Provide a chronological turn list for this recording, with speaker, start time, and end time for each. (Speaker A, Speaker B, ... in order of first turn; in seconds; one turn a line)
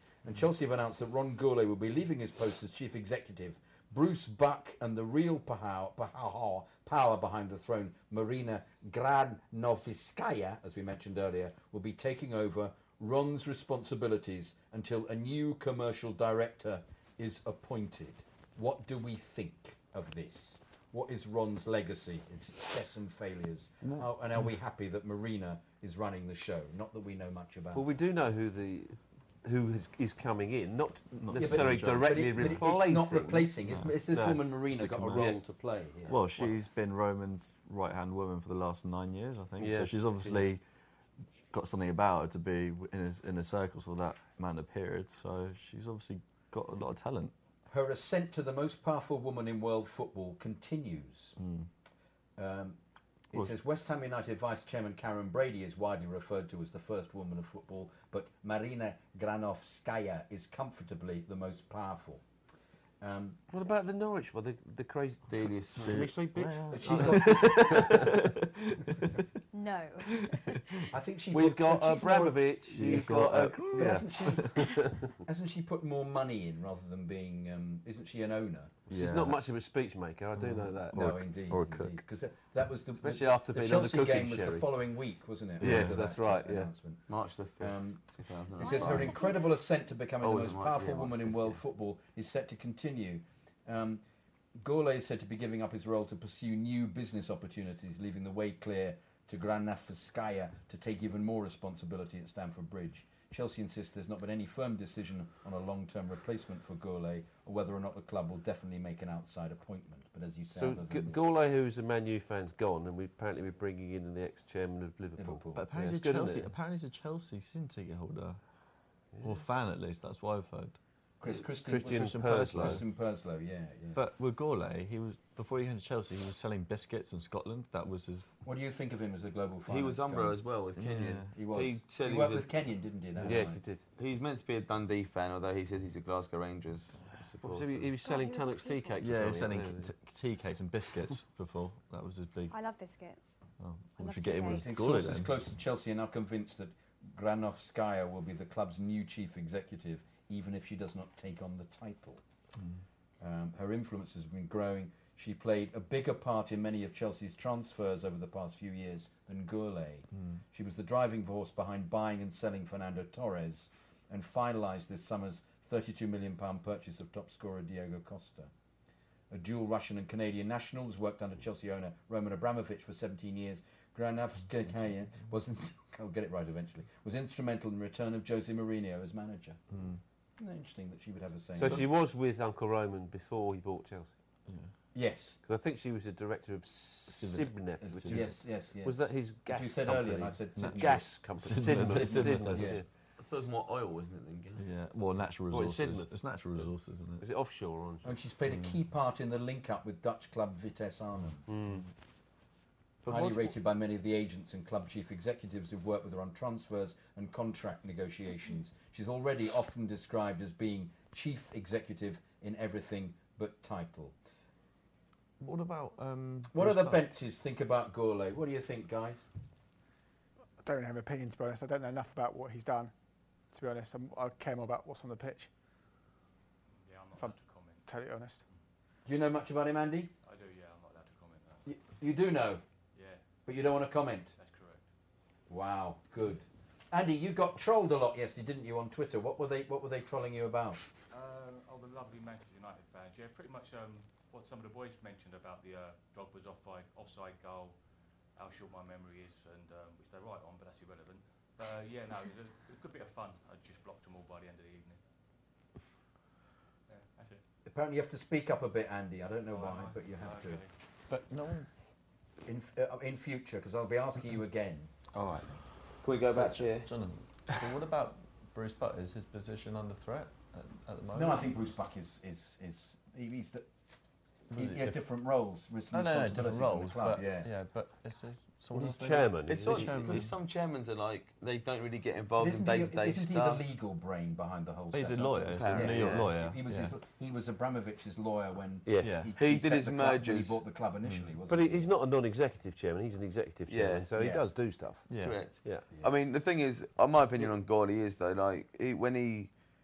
Speaker A: 0.2-27.8
Speaker B: 27.7-33.5
Speaker C: 31.1-32.6
Speaker A: 31.4-36.2
Speaker B: 34.1-34.4
Speaker C: 34.8-35.3
Speaker C: 36.1-40.6
Speaker B: 39.6-40.4
Speaker C: 41.5-47.3
Speaker A: 47.7-51.3
Speaker C: 51.4-51.7
Speaker A: 52.4-52.8
Speaker A: 53.3-62.2
Speaker A: 63.0-63.4
Speaker B: 63.5-68.2
Speaker D: 65.3-66.0
Speaker C: 65.9-69.2
Speaker A: 66.7-67.8
Speaker E: 69.5-70.8
Speaker A: 70.9-74.6
Speaker B: 71.3-75.1
Speaker C: 72.7-74.5
Speaker A: 75.2-78.8
Speaker B: 78.9-81.0
Speaker C: 78.9-79.4
Speaker C: 80.4-82.0
Speaker A: 80.9-87.0
Speaker B: 83.0-84.7
Speaker C: 85.6-86.1
Speaker B: 85.6-86.7
Speaker D: 87.1-89.0
Speaker A: 87.6-88.0
Speaker A: 88.6-94.0
Speaker E: 88.6-89.5
Speaker D: 90.2-91.6
Speaker A: 94.5-111.2
Speaker B: 110.5-116.5
Speaker A: 115.2-115.7
Speaker C: 115.5-118.4
Speaker B: 119.1-119.4
Speaker C: 119.2-120.8
Speaker A: 121.2-124.0
Speaker B: 121.5-122.8
Speaker C: 121.9-122.8
Speaker C: 123.9-128.3
Speaker A: 128.4-130.4
Speaker D: 129.7-132.5
Speaker C: 130.8-131.3
Speaker A: 131.3-133.6
Speaker C: 133.2-133.4
Speaker B: 133.2-133.8
Speaker D: 134.0-137.9
Speaker B: 137.4-139.9
Speaker E: 138.0-138.9
Speaker C: 139.0-142.5
Speaker E: 142.5-143.4
Speaker C: 143.6-145.3
Speaker E: 144.0-144.7
Speaker A: 144.5-152.2
Speaker B: 144.7-145.2
Speaker A: 153.2-168.5
Speaker A: 169.3-179.6
Speaker A: 180.4-181.9
Speaker B: 181.6-184.1
Speaker A: 184.9-185.4
Speaker B: 185.4-192.8
Speaker C: 187.1-188.3
Speaker A: 187.8-191.1
Speaker C: 190.5-192.8
Speaker A: 191.7-192.8
Speaker D: 193.2-194.7
Speaker C: 194.6-197.2
Speaker B: 195.5-198.1
Speaker A: 198.0-201.4
Speaker B: 201.5-201.8
Speaker D: 203.0-203.5
Speaker A: 203.1-214.1
Speaker C: 215.4-217.0
Speaker A: 216.5-219.2
Speaker F: 220.6-222.9
Speaker F: 223.5-225.5
Speaker G: 226.8-227.9
Speaker F: 227.9-228.4
Speaker A: 229.0-230.1
Speaker G: 230.2-231.7
Speaker A: 231.7-232.6
Speaker G: 232.9-233.2
Speaker A: 233.4-234.3
Speaker G: 234.3-234.8
Speaker A: 235.5-240.8
Speaker G: 241.1-247.8
Speaker G: 248.3-255.0
Speaker G: 256.9-257.4
Speaker A: 257.6-260.6
Speaker G: 259.5-260.7
Speaker C: 261.1-261.7
Speaker A: 262.4-264.9
Speaker C: 265.1-265.5
Speaker D: 266.0-266.9
Speaker C: 266.8-271.4
Speaker A: 271.1-273.7
Speaker C: 274.5-275.0
Speaker A: 274.5-277.5
Speaker C: 275.9-280.3
Speaker B: 278.7-280.3
Speaker D: 279.5-283.6
Speaker A: 282.4-291.9
Speaker C: 284.9-286.9
Speaker D: 285.5-286.3
Speaker B: 288.9-289.2
Speaker C: 289.0-289.3
Speaker D: 289.4-290.6
Speaker B: 291.5-295.9
Speaker D: 293.7-294.1
Speaker A: 294.1-294.4
Speaker C: 295.1-295.5
Speaker D: 295.2-299.5